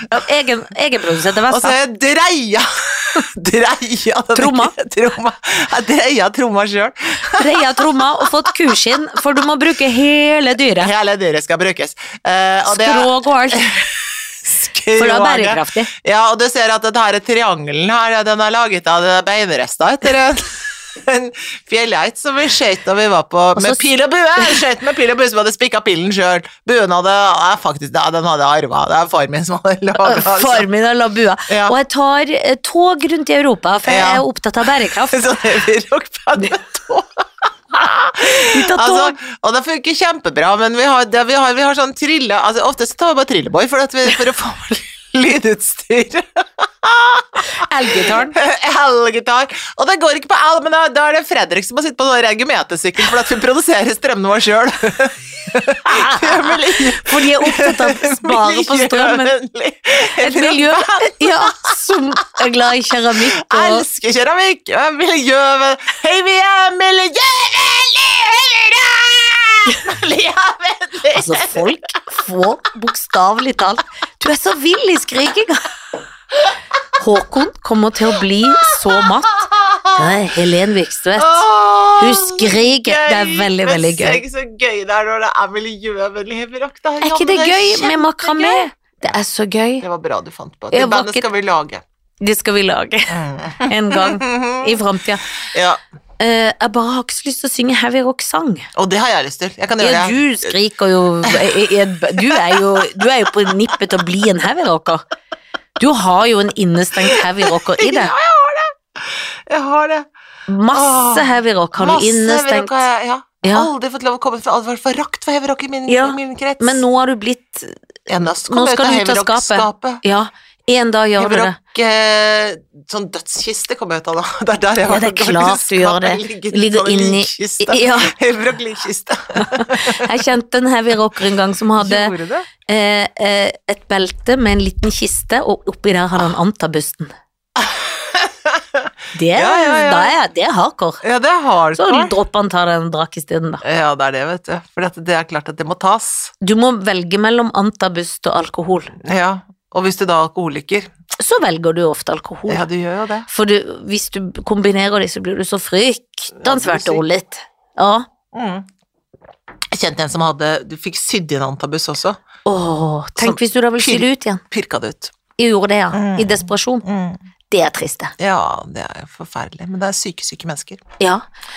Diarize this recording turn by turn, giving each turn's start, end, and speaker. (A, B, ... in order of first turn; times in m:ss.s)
0:00.1-0:01.8 A
0:01.5-0:08.8 B
0:04.4-0:04.8 A
0:07.4-0:10.9 A
0:10.8-0:30.7 B
0:12.6-0:13.7 A
0:15.0-0:15.9 A
0:23.6-0:23.8 A
0:24.4-0:24.6 A
0:30.0-0:35.4 A
0:31.5-0:31.8 B
0:33.9-0:34.2 B
0:35.1-1:01.8 B
0:38.2-0:39.2 A
0:47.6-0:48.4 A
0:55.9-0:59.3 A
1:00.2-1:03.8 A
1:03.2-1:11.7 B
1:11.1-1:15.7 A
1:17.0-1:24.2 A
1:18.3-1:20.2 B
1:21.2-1:29.2 B
1:27.0-1:29.8 A
1:29.8-1:31.8 B
1:30.7-1:31.3 A
1:32.2-1:35.3 A
1:33.1-1:34.8 B
1:35.4-1:35.8 B
1:36.2-1:38.7 A
1:38.8-1:40.6 B
1:39.8-1:45.0 A
1:41.2-1:43.8 B
1:45.8-1:48.1 A
1:47.1-1:50.1 B
1:50.5-1:52.8 A
1:50.7-1:56.8 B
1:53.4-1:53.7 A
1:55.9-1:57.8 A
1:58.1-2:00.0 B
1:58.5-2:01.6 A
2:01.2-2:10.1 B
2:04.8-2:08.1 A
2:09.4-2:12.1 A
2:11.8-2:12.5 B
2:12.7-2:17.1 A
2:17.6-2:20.2 B
2:19.1-2:21.0 A
2:21.0-2:22.1 B
2:21.8-2:23.6 A
2:23.6-2:26.3 B
2:26.4-2:28.9 A
2:29.0-2:30.9 B
2:31.2-2:32.6 A
2:32.5-2:33.3 B
2:33.3-2:38.1 A
2:36.4-2:37.0 B
2:38.3-2:38.7 B
2:39.7-2:42.2 B
2:42.4-2:44.4 A
2:43.2-2:45.2 B
2:45.4-2:46.8 A
2:45.9-2:47.2 B
2:47.5-2:48.1 A
2:48.2-2:50.8 B